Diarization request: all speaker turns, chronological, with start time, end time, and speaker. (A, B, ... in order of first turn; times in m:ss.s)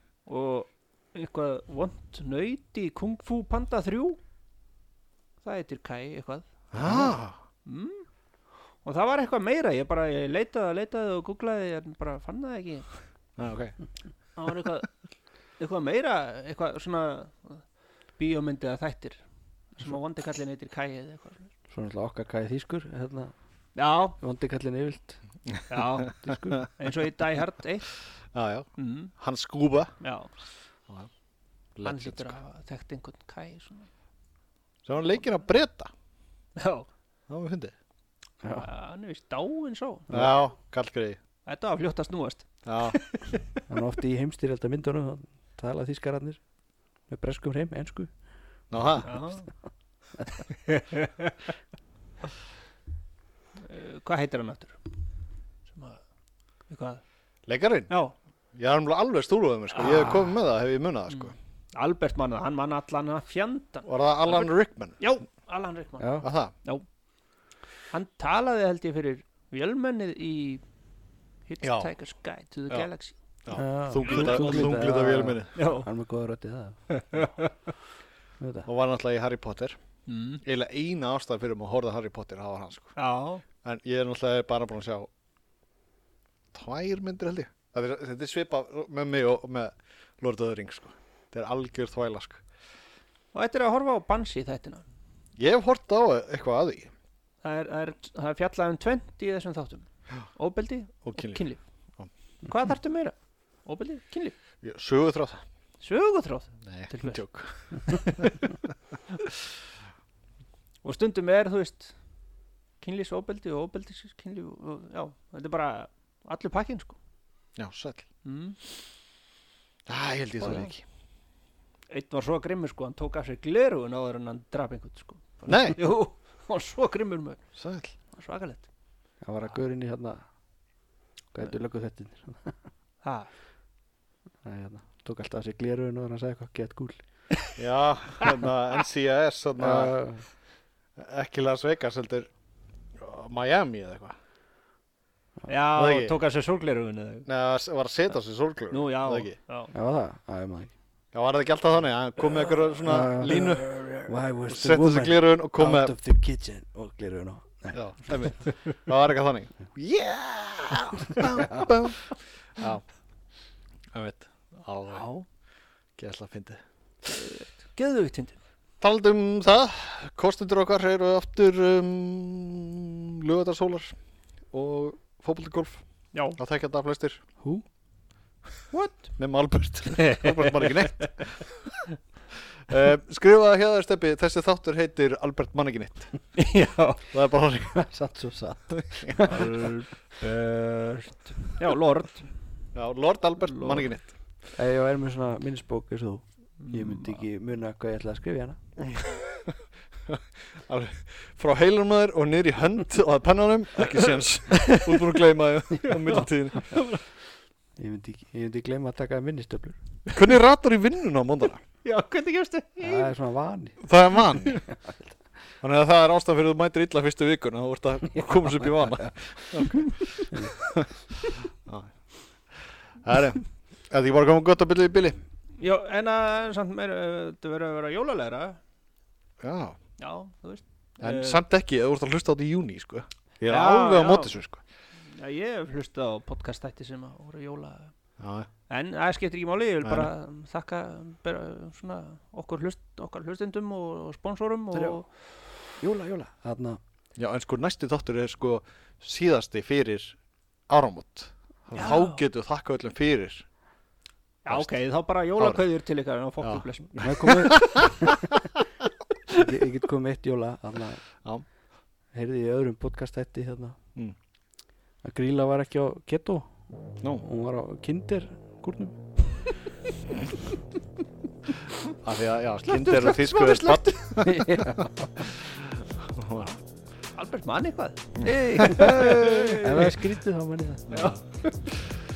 0:00.3-0:04.2 A
0:05.4-0:08.1 A
0:06.7-0:07.4 B
0:08.8-0:12.9 A
0:13.4-0:13.8 B
0:14.4-0:14.9 A
0:15.6-0:17.6 A
0:18.2-0:19.2 A
0:19.8-0:21.5 A
0:21.7-0:23.3 C
0:23.8-0:24.2 A
0:24.2-0:25.2 C
0:25.7-0:28.0 A
0:26.2-0:26.6 C
0:28.3-0:29.9 B
0:28.8-0:29.1 A
0:30.0-0:30.3 A
0:31.8-0:32.4 B
0:31.8-0:33.9 A
0:34.9-0:35.9 B
0:36.6-0:36.9 A
0:37.3-0:37.7 B
0:38.4-0:38.7 C
0:38.6-0:40.2 A
0:40.1-0:41.2 B
0:41.5-0:43.5 A
0:42.6-0:43.0 B
0:43.7-0:46.4 C
0:47.1-0:48.1 C
0:48.7-0:49.2 B
0:49.0-0:49.5 A
0:50.6-0:51.4 A
0:53.6-0:54.8 A
0:55.7-0:56.0 A
0:56.7-0:57.0 A
0:57.5-0:57.9 B
0:57.9-0:58.2 A
0:58.6-1:01.4 B
0:59.8-1:00.2 A
1:01.1-1:06.9 A
1:03.9-1:05.0 B
1:06.0-1:06.3 C
1:06.2-1:06.5 B
1:07.9-1:10.6 A
1:11.5-1:13.2 A
1:11.6-1:11.9 B
1:13.4-1:15.6 B
1:13.5-1:16.8 C
1:15.6-1:15.9 A
1:16.9-1:17.5 A
1:18.4-1:18.7 C
1:18.7-1:19.8 B
1:20.1-1:20.4 A
1:20.4-1:22.9 B
1:23.0-1:23.4 A
1:23.6-1:25.1 B
1:26.5-1:32.4 B
1:33.3-1:34.8 A
1:35.4-1:36.9 B
1:37.4-1:41.6 A
1:41.1-1:41.4 B
1:42.4-1:44.4 A
1:44.6-1:45.4 B
1:45.8-1:47.2 A
1:46.7-1:48.6 B
1:50.8-1:52.0 A
1:52.8-1:57.0 A
1:57.6-1:58.1 B
1:58.2-1:58.6 A
1:59.9-2:00.8 B
2:00.4-2:00.7 A
2:01.9-2:07.5 A
2:05.5-2:05.8 B
2:07.6-2:07.9 B
2:08.1-2:08.7 A
2:09.2-2:10.2 C
2:11.3-2:12.6 C
2:13.0-2:13.3 A
2:14.4-2:17.0 C
2:17.6-2:20.0 B
2:19.6-2:20.2 C
2:21.0-2:22.3 B
2:23.0-2:24.2 B
2:25.5-2:27.3 A
2:25.8-2:26.2 B
2:27.3-2:29.4 B
2:28.7-2:29.7 A
2:29.7-2:30.7 C
2:31.1-2:33.9 B
2:32.8-2:37.8 C
2:34.5-2:36.0 B
2:37.7-2:42.8 B
2:41.3-2:41.7 C
2:43.9-2:45.1 B
2:44.9-2:45.2 A
2:46.0-2:46.6 B
2:47.0-2:48.4 A
2:48.8-2:54.0 B
2:54.5-2:55.8 B
2:56.4-2:57.2 B
2:57.4-2:57.6 C
2:58.7-2:59.1 A
2:59.2-3:01.6 B
3:00.0-3:01.2 A
3:02.7-3:06.4 B
3:06.4-3:07.0 A
3:07.1-3:07.9 B
3:07.8-3:09.5 C
3:08.7-3:09.4 B
3:09.2-3:12.3 A
3:12.7-3:14.2 B
3:13.5-3:13.9 A
3:14.5-3:18.6 C
3:16.6-3:17.2 A
3:18.9-3:19.5 B
3:20.1-3:26.8 B
3:24.5-3:24.9 A
3:25.8-3:27.0 A
3:27.8-3:29.8 C
3:30.1-3:31.6 B
3:31.8-3:33.1 A
3:32.8-3:33.8 C
3:33.8-3:34.6 B
3:34.8-3:35.0 C
3:35.6-3:41.9 B
3:43.0-3:45.2 B
3:45.6-3:48.6 A
3:49.4-3:49.8 B
3:50.0-3:51.4 A
3:51.0-3:54.6 B
3:53.5-3:54.3 A
3:55.0-3:57.9 A
3:58.2-3:58.5 B
3:58.7-4:05.1 A
3:59.8-4:00.1 B
4:05.7-4:06.8 C
4:07.2-4:10.2 B
4:10.7-4:13.4 B
4:11.8-4:12.2 A
4:14.4-4:17.5 A
4:15.4-4:15.6 B
4:16.4-4:18.0 B
4:17.0-4:18.3 C
4:19.4-4:21.0 C
4:22.1-4:23.8 C
4:25.0-4:26.6 C
4:27.2-4:29.1 C
4:32.0-4:34.6 B
4:32.7-4:34.3 A
4:34.2-4:34.9 C
4:35.5-4:36.6 B
4:37.2-4:39.9 A
4:38.2-4:39.3 B
4:38.3-4:39.0 C
4:39.6-4:40.8 C
4:40.9-4:41.2 B
4:40.9-4:41.6 A